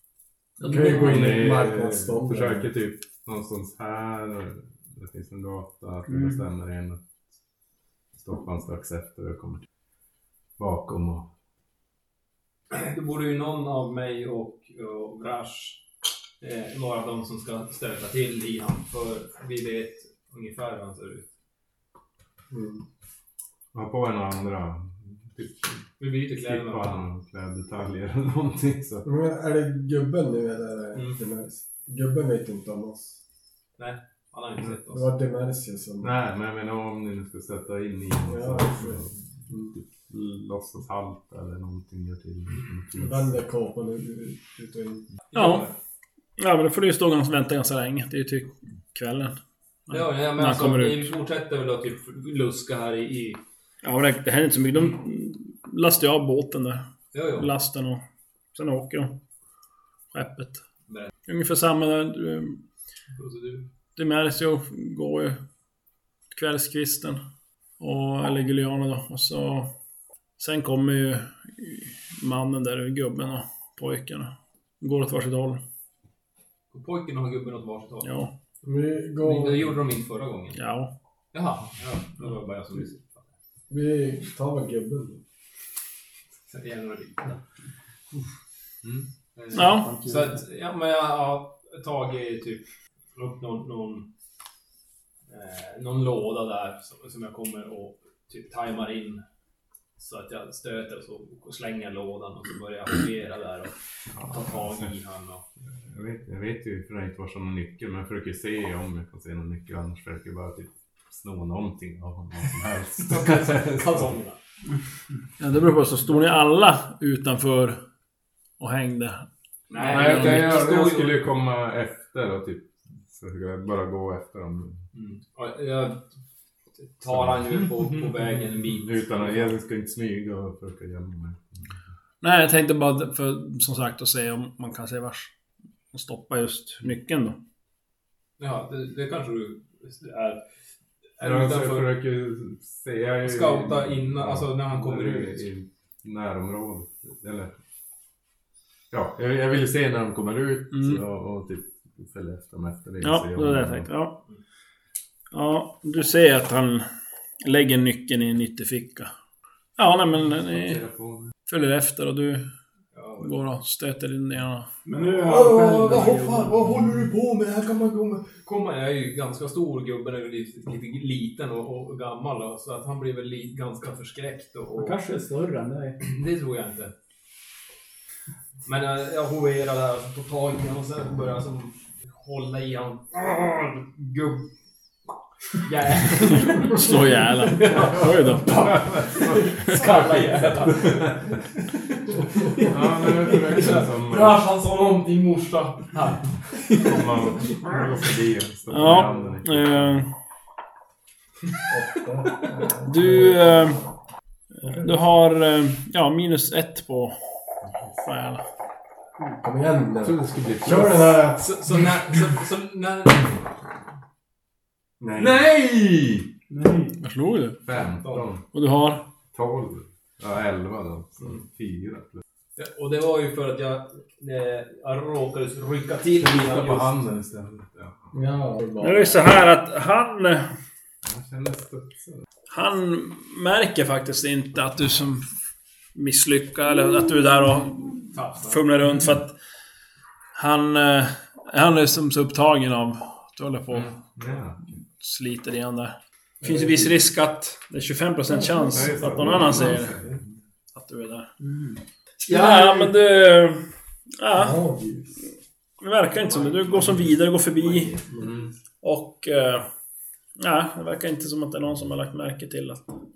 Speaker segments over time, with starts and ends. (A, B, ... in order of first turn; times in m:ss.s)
0:00.6-0:00.9 A
0:00.6-0:02.7 B
0:00.6-0:07.0 C
0:06.1-0:06.4 A
0:08.1-0:09.6 C
0:10.6-0:11.3 C
0:12.7-0:15.8 D
0:16.4-0:21.3 D
0:22.5-0:22.8 B
0:23.7-0:29.0 C
0:26.0-0:27.0 D
0:29.0-0:33.2 B
0:33.8-0:35.1 D
0:34.9-0:36.1 B
0:36.0-0:43.3 C
0:38.2-0:39.7 B
0:43.0-0:45.1 B
0:45.3-0:45.7 D
0:45.3-0:45.7 E
0:46.4-0:49.4 E
0:49.9-0:51.1 E
0:49.9-0:53.4 D
0:53.8-0:58.0 E
0:57.1-0:57.5 D
0:58.5-0:59.2 E
1:00.1-1:00.6 E
1:01.2-1:02.6 E
1:03.2-1:03.6 D
1:04.0-1:05.4 E
1:06.3-1:07.2 E
1:07.8-1:09.7 E
1:10.4-1:15.6 E
1:16.7-1:18.1 D
1:18.0-1:18.3 E
1:18.6-1:19.7 B
1:19.2-1:20.6 D
1:20.5-1:20.9 E
1:21.3-1:23.3 D
1:23.7-1:25.2 B
1:26.5-1:27.4 D
1:29.3-1:32.6 D
1:29.5-1:29.9 E
1:29.5-1:30.4 A
1:33.2-1:34.1 D
1:35.3-1:39.2 D
1:40.0-1:45.4 D
1:44.1-1:44.9 C
1:45.8-1:54.1 C
1:53.0-1:54.4 D
1:55.4-1:57.8 E
1:58.6-2:00.5 E
1:59.7-2:01.2 D
1:59.8-2:04.8 C
2:04.9-2:06.1 D
2:06.8-2:09.5 D
2:07.1-2:11.7 C
2:12.2-2:15.3 E
2:15.9-2:17.4 E
2:18.4-2:20.4 D
2:21.2-2:21.9 D
2:21.2-2:27.5 C
2:23.2-2:25.4 D
2:28.9-2:33.9 C
2:30.7-2:31.0 E
2:33.0-2:34.2 E
2:35.3-2:36.9 E
2:37.4-2:39.1 E
2:39.8-2:40.8 E
2:40.5-2:41.3 C
2:41.5-2:42.4 E
2:42.9-2:43.4 D
2:43.2-2:44.7 E
2:44.8-2:46.6 A
2:45.2-2:55.0 D
2:54.7-2:56.0 A
2:56.0-2:56.9 D
2:58.6-3:04.5 D
3:05.6-3:18.0 D
3:06.2-3:08.7 E
3:07.7-3:11.3 C
3:12.7-3:14.5 C
3:16.8-3:20.0 C
3:18.7-3:20.1 E
3:21.7-3:23.9 B
3:22.8-3:23.8 E
3:24.6-3:27.2 E
3:28.0-3:28.4 E
3:29.4-3:31.5 B
3:30.0-3:31.3 C
3:31.4-3:33.4 D
3:35.0-3:35.4 B
3:35.2-3:36.3 C
3:36.5-3:37.0 A
3:37.0-3:37.6 E
3:37.6-3:38.4 C
3:37.7-3:38.3 D
3:38.5-3:39.1 E
3:39.3-3:42.2 C
3:42.6-3:46.9 D
3:46.2-3:48.1 C
3:48.1-3:49.2 B
3:48.8-3:50.5 E
3:51.0-3:52.2 C
3:52.5-3:55.3 E
3:55.9-3:59.3 E
3:58.1-3:58.7 D
4:00.3-4:04.0 E
4:03.7-4:04.6 C
4:05.0-4:09.9 E
4:06.4-4:07.1 B
4:08.7-4:10.3 C
4:09.2-4:10.1 B
4:10.7-4:11.3 E
4:11.4-4:11.8 A
4:12.2-4:13.6 E
4:12.2-4:12.8 B
4:14.2-4:14.6 E
4:14.3-4:15.2 B
4:15.8-4:18.0 E
4:16.2-4:18.0 D
4:18.1-4:18.4 B
4:18.2-4:18.5 C
4:18.8-4:19.7 E
4:20.4-4:22.9 E